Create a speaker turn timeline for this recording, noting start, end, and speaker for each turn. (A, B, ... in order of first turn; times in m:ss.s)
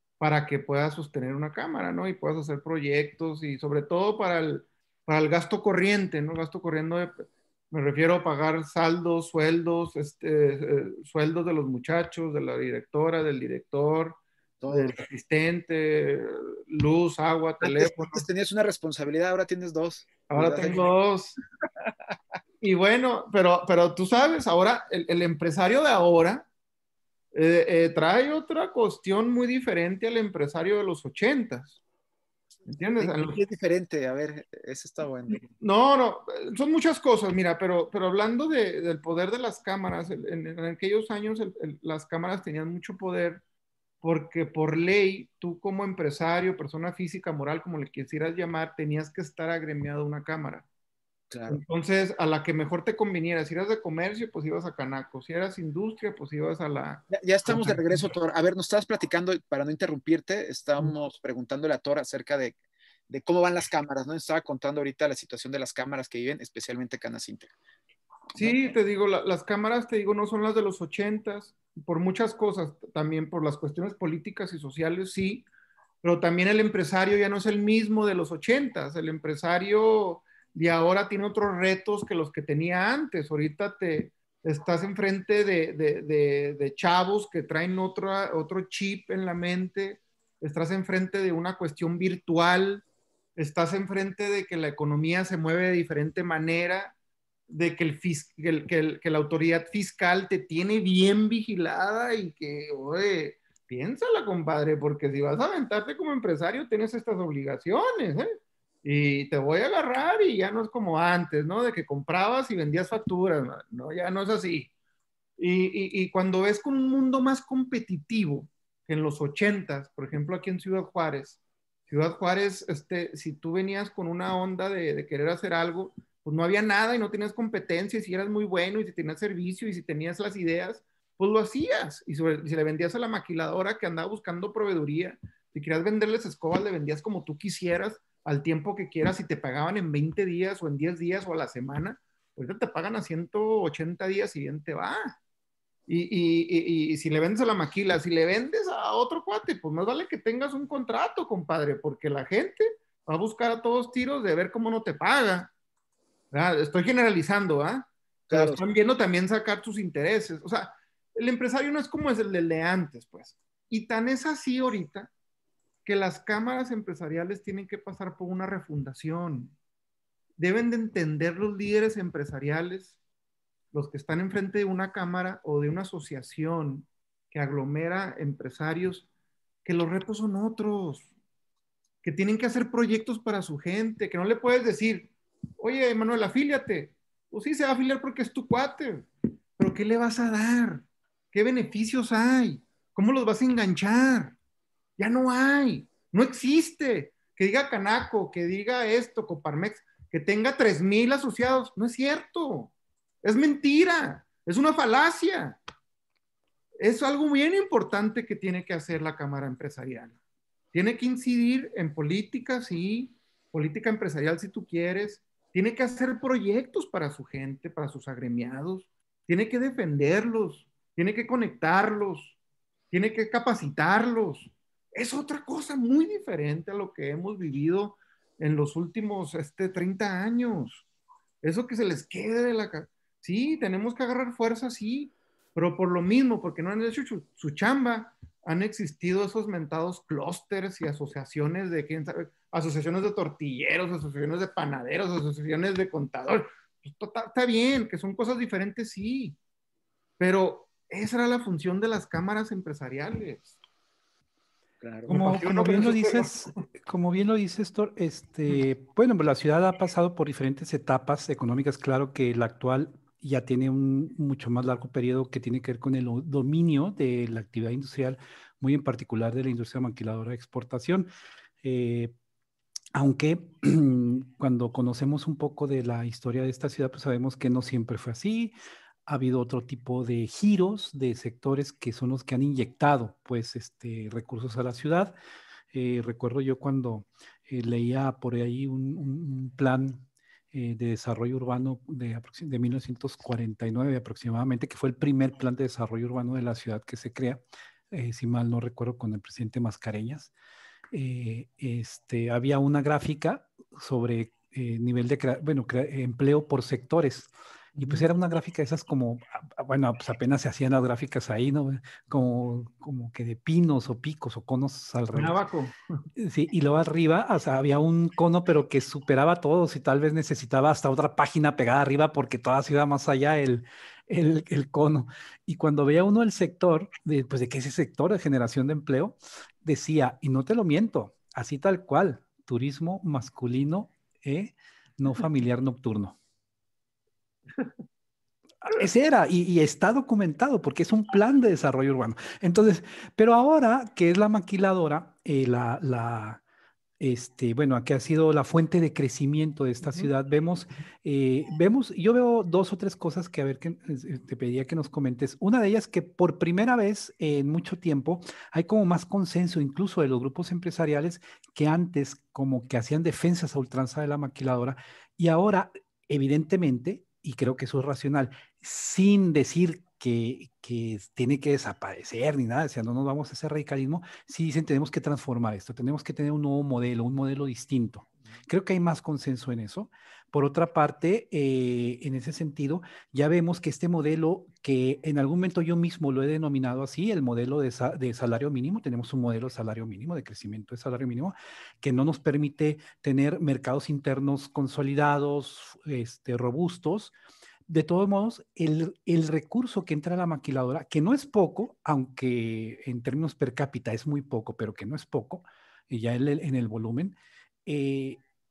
0:00.2-0:18.2 A
0:14.6-0:15.0 B
0:17.6-0:20.9 B
0:20.3-0:21.4 A
0:22.6-0:26.5 A
0:27.3-0:31.8 A
0:32.7-0:33.4 A
0:33.0-0:35.4 B
0:35.3-0:43.4 A
0:44.0-0:50.6 A
0:51.3-0:51.6 B
0:51.5-0:58.1 A
0:57.1-1:02.6 B
1:03.1-1:07.5 B
1:08.3-1:15.5 A
1:08.4-1:08.7 B
1:16.0-1:32.8 A
1:33.4-1:36.9 A
1:37.5-1:48.3 A
1:48.8-1:54.7 A
1:55.4-2:25.2 A
2:25.9-2:35.5 A
2:36.3-2:45.1 A
2:38.3-2:38.6 B
2:45.8-2:49.5 A
2:50.4-2:52.9 A
2:53.7-2:59.1 A
2:59.6-3:01.1 A
3:02.0-3:09.1 A
3:09.6-3:14.4 A
3:15.0-3:25.6 A
3:26.8-3:30.2 A
3:30.7-3:42.3 A
3:42.9-3:50.8 A
3:51.4-4:09.4 A
4:10.2-4:13.5 A
4:14.8-4:15.1 B
4:15.1-4:16.6 A
4:15.1-4:31.1 C
4:31.6-4:32.1 C
4:32.9-4:38.5 C
4:39.0-4:45.1 C
4:45.7-5:00.3 C
5:00.9-5:15.4 C
5:07.8-5:08.1 A
5:15.1-5:15.8 A
5:16.2-5:36.2 C
5:38.6-5:46.4 C
5:47.0-6:37.1 C
5:49.8-5:50.1 A
6:37.7-6:48.2 C